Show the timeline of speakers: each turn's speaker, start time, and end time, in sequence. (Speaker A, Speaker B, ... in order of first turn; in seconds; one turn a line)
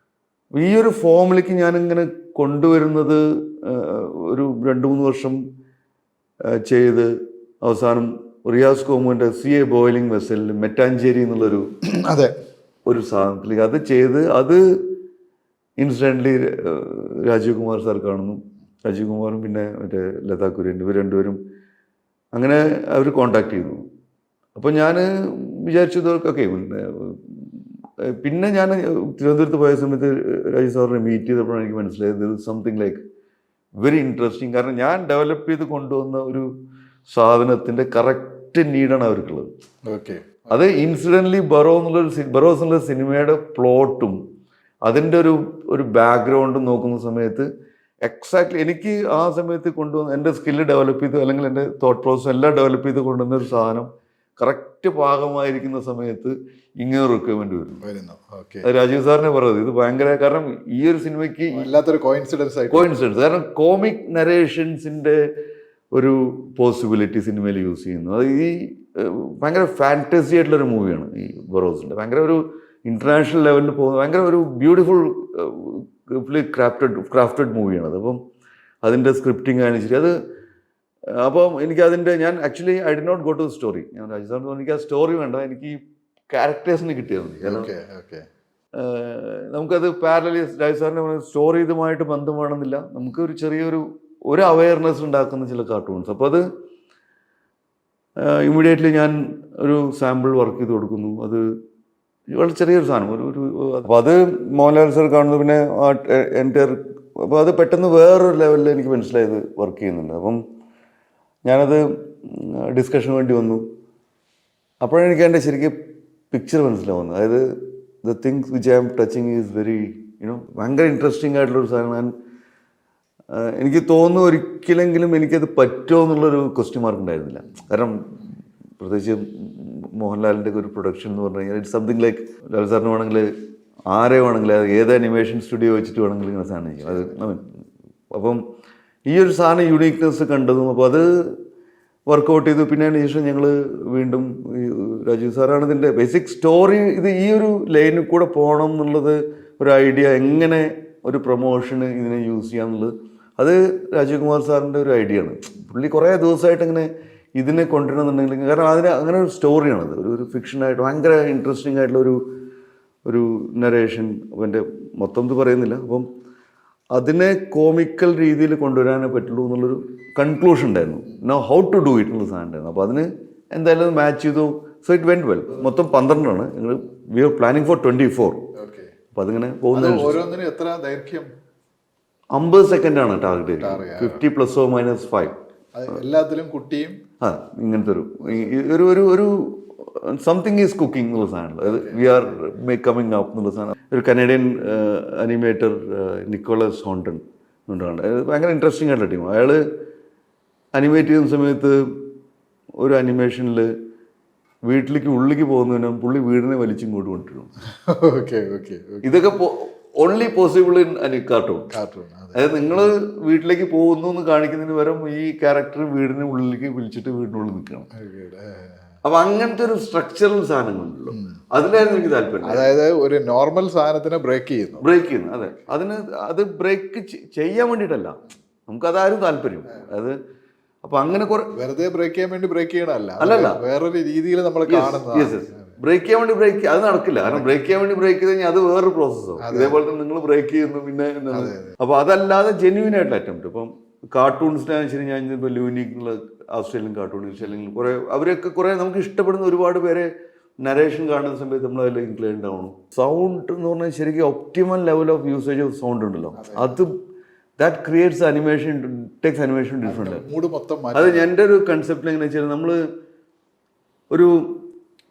Speaker A: 0.5-5.4
Speaker A: 6.6-7.1
Speaker A: 7.6-11.7
Speaker B: 11.8-12.3
Speaker A: 12.9-14.8
Speaker A: 15.8-21.4
Speaker A: 22.3-23.8
Speaker A: 24.6-33.0
Speaker A: 33.8-36.5
Speaker A: 37.1-39.5
Speaker B: 39.9-40.5
Speaker A: 40.5-44.2
Speaker A: 44.9-47.5
Speaker A: 48.0-57.9
Speaker B: 57.8-58.7
Speaker A: 58.6-61.7
Speaker B: 61.5-62.9
Speaker A: 62.7-65.2
Speaker A: 65.9-78.2
Speaker A: 78.8-80.1
Speaker A: 81.2-85.8
Speaker A: 86.3-87.7
Speaker B: 87.4-88.2
Speaker A: 88.8-96.4
Speaker A: 98.2-101.4
Speaker A: 102.3-110.4
Speaker A: 111.5-113.7
Speaker A: 114.8-115.8
Speaker A: 116.3-117.5
Speaker A: 118.0-122.1
Speaker A: 123.3-133.3
Speaker A: 133.9-138.4
Speaker A: 139.1-141.4
Speaker A: 142.1-162.2
Speaker A: 163.1-166.1
Speaker A: 166.9-178.5
Speaker B: 178.6-178.9
Speaker A: 179.1-180.2
Speaker B: 179.7-181.3
Speaker A: 182.3-185.4
Speaker B: 183.6-184.2
Speaker B: 185.7-187.0
Speaker A: 187.2-199.6
Speaker B: 191.7-192.0
Speaker A: 200.7-202.0
Speaker A: 202.8-203.7
Speaker A: 204.7-207.5
Speaker B: 207.8-209.1
Speaker A: 209.0-211.7
Speaker B: 211.7-212.9
Speaker A: 212.3-217.9
Speaker B: 217.9-218.9
Speaker A: 219.0-222.7
Speaker B: 222.4-224.8
Speaker A: 224.8-230.2
Speaker A: 230.8-231.5
Speaker B: 231.5-235.6
Speaker A: 233.2-233.6
Speaker A: 234.7-250.1
Speaker B: 239.4-239.8
Speaker B: 241.3-241.8
Speaker A: 250.6-256.9
Speaker B: 256.4-256.7
Speaker A: 257.6-260.2
Speaker B: 259.8-261.3
Speaker A: 260.9-262.8
Speaker A: 264.1-264.6